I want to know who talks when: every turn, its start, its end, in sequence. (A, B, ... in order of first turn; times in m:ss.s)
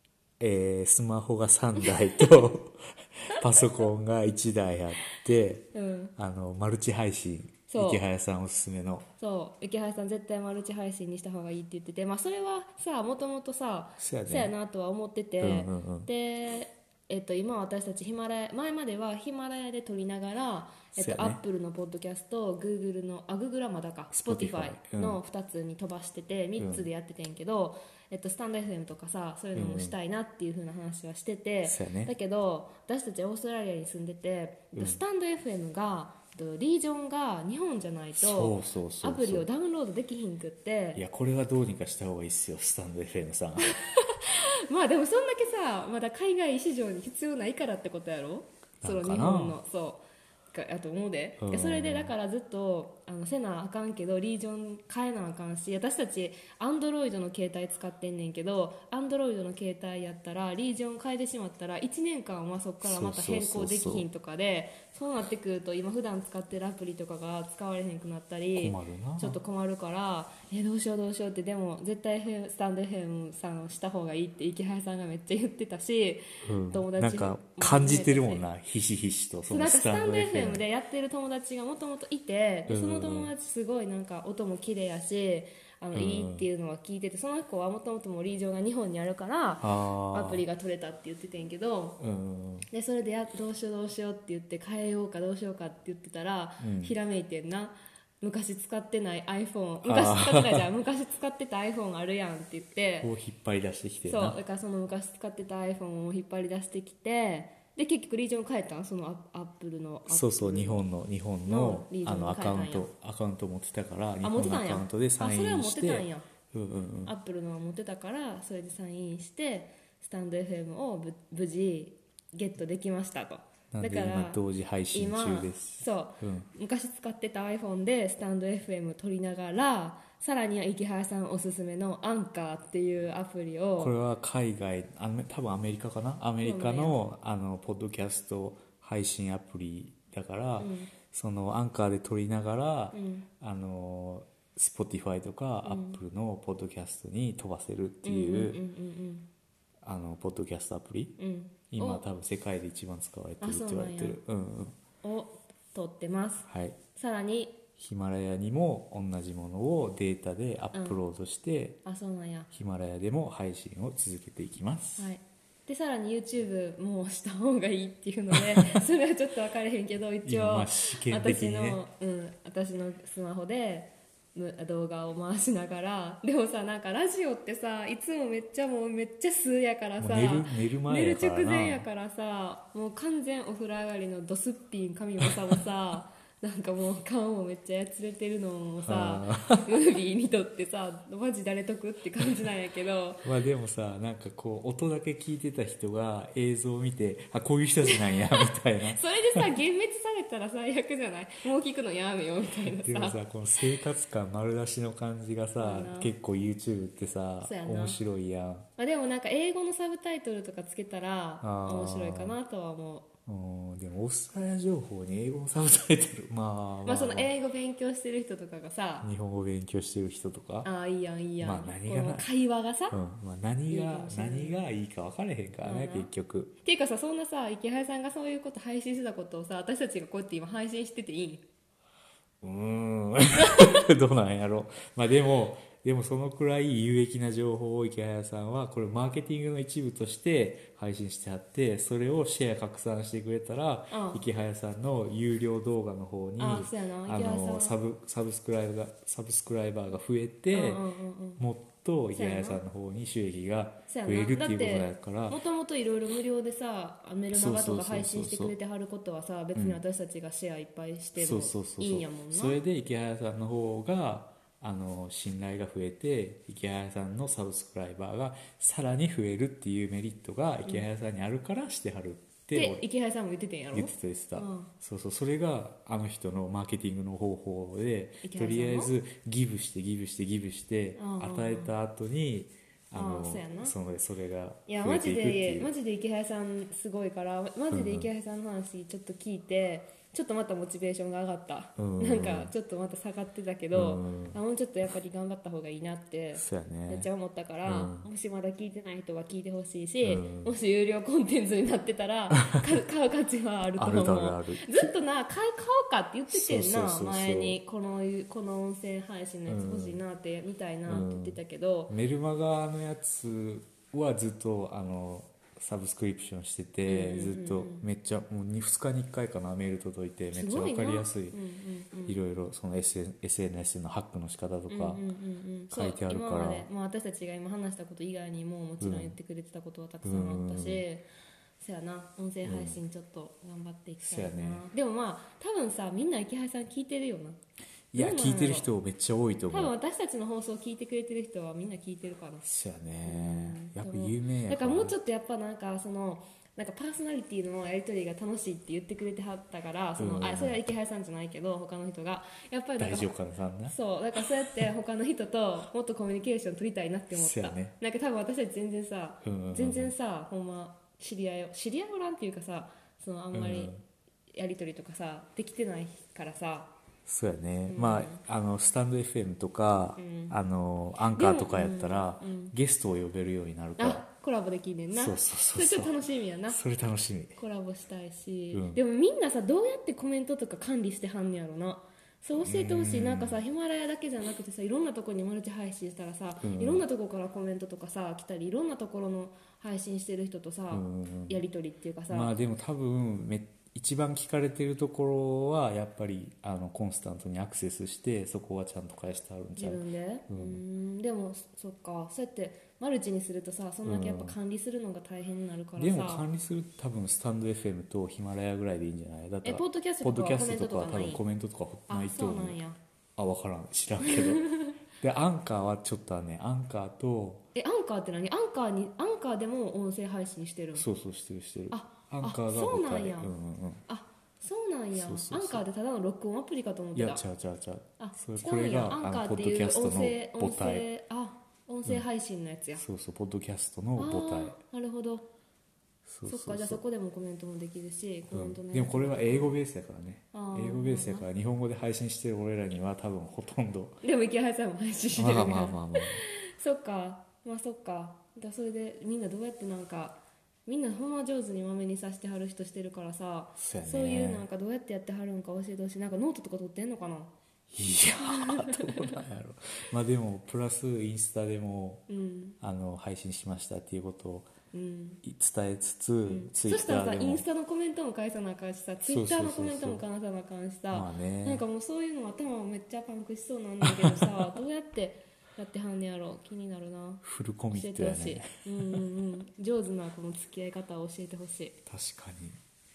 0:00.4-0:09.0 A
0:05.7-0:06.1 B
0:07.7-0:08.0 B
0:09.2-0:41.0 B
0:14.0-0:14.5 A
0:15.4-0:16.1 A
0:20.9-0:21.4 A
0:24.1-0:25.2 A
0:26.6-0:26.9 A
0:29.5-0:30.0 A
0:31.6-0:32.1 A
0:34.7-0:35.0 A
0:38.1-0:39.5 A
0:41.0-0:43.7 A
0:43.7-1:18.4 B
0:48.8-0:49.6 A
0:51.4-0:52.1 A
1:02.8-1:04.1 A
1:08.6-1:09.4 A
1:16.4-1:20.6 A
1:19.5-1:32.0 B
1:22.7-1:23.3 A
1:25.9-1:26.4 A
1:29.6-1:30.4 A
1:32.0-1:32.7 A
1:32.7-1:43.1 B
1:36.6-1:36.9 A
1:39.8-1:40.7 A
1:43.0-1:44.4 A
1:44.0-1:50.8 B
1:50.1-1:57.1 A
1:51.5-1:52.9 B
1:54.2-1:56.2 B
1:57.0-2:13.9 B
2:03.7-2:06.5 A
2:13.8-2:28.6 A
2:16.4-2:17.0 B
2:20.6-2:20.9 B
2:22.9-2:23.3 B
2:25.6-2:26.0 B
2:28.0-2:29.3 B
2:29.8-2:31.2 A
2:31.2-2:32.0 B
2:31.7-2:34.8 A
2:33.4-2:34.2 B
2:35.0-2:37.6 B
2:36.5-2:36.8 A
2:37.8-2:41.8 A
2:40.7-2:41.0 B
2:41.8-2:42.5 B
2:42.5-2:45.1 A
2:45.0-3:13.3 B
2:48.3-2:48.8 A
2:50.2-2:51.8 A
3:00.0-3:01.8 A
3:08.8-3:09.7 A
3:13.2-3:19.4 A
3:17.8-3:23.2 B
3:22.6-3:28.7 A
3:25.6-3:26.1 B
3:27.4-3:28.0 B
3:28.8-3:33.1 B
3:31.4-3:32.4 A
3:33.3-3:37.3 A
3:36.8-3:39.1 B
3:39.0-3:40.7 A
3:40.6-3:43.0 B
3:41.4-3:42.3 A
3:42.9-3:46.5 A
3:43.7-3:44.6 B
3:45.6-3:46.1 B
3:46.6-3:51.4 B
3:52.4-4:10.8 A
4:03.9-4:04.2 B
4:06.4-4:07.7 B
4:10.5-4:11.4 B
4:11.4-4:15.4 A
4:12.1-4:12.6 B
4:13.9-4:22.6 B
4:17.3-4:18.5 A
4:19.5-4:19.8 A
4:21.2-4:32.8 A
4:32.5-4:34.7 B
4:33.7-4:45.7 A
4:38.2-4:38.9 B
4:41.0-4:41.7 B
4:42.9-4:43.7 B
4:44.7-5:11.9 B
4:47.7-4:48.1 A
4:51.8-4:52.5 A
4:53.7-4:54.4 A
4:56.4-4:57.1 A
4:57.6-4:58.1 A
5:00.0-5:00.5 A
5:03.8-5:04.8 A
5:06.3-5:07.6 A
5:09.5-5:10.0 A
5:10.9-5:11.4 A
5:11.9-5:21.4 A
5:16.9-5:17.8 B
5:20.3-5:22.2 B
5:22.0-5:25.0 A
5:24.7-5:31.0 B
5:25.7-5:26.7 A
5:28.8-5:29.1 A
5:30.0-5:30.8 A
5:31.6-5:37.4 B
5:32.4-5:32.8 A
5:34.0-5:34.6 A
5:37.9-5:39.7 A
5:37.9-5:38.7 B
5:39.5-5:42.4 B
5:42.4-5:44.9 A
5:43.0-5:53.1 B
5:50.0-5:50.6 A
5:52.8-5:54.2 A
5:53.6-6:03.7 B
5:57.1-5:57.7 A
5:59.2-5:59.9 A
6:03.3-6:03.8 A
6:04.3-6:06.7 B
6:07.0-6:14.0 A
6:07.7-6:08.2 B
6:10.0-6:10.4 B
6:11.1-6:12.5 B
6:13.8-6:16.6 B
6:14.9-6:15.9 A
6:16.5-6:17.4 A
6:17.3-6:32.4 B
6:18.5-6:18.8 A
6:22.4-6:23.4 A
6:26.4-6:26.8 A
6:30.7-6:31.4 A
6:32.1-6:40.6 A
6:39.6-6:46.2 B
6:43.8-6:44.4 A
6:45.8-6:52.6 A
6:49.4-6:51.2 B
6:51.9-6:52.8 B
6:53.2-6:57.4 A
6:54.0-6:54.7 B
6:57.5-7:00.8 B
7:00.7-7:03.8 A
7:01.7-7:03.3 B
7:03.9-7:07.2 B
7:04.9-7:05.6 A
7:06.9-7:10.9 A
7:08.0-7:12.8 B
7:12.8-7:14.6 A
7:14.0-7:15.3 B
7:16.0-7:16.8 A
7:16.2-7:19.6 B
7:18.3-7:24.0 A
7:20.3-7:21.3 B
7:24.0-7:37.3 B
7:25.1-7:26.2 A
7:33.6-7:34.4 A
7:37.7-7:42.0 A
7:38.2-7:39.2 B
7:42.1-7:42.6 B
7:42.6-7:44.5 A
7:44.7-7:45.2 B
7:45.2-7:47.4 A
7:46.2-8:01.8 B
7:49.0-7:50.0 A
7:50.9-7:51.6 A
7:53.8-7:54.4 A
7:57.2-7:59.0 A
8:01.9-8:02.6 A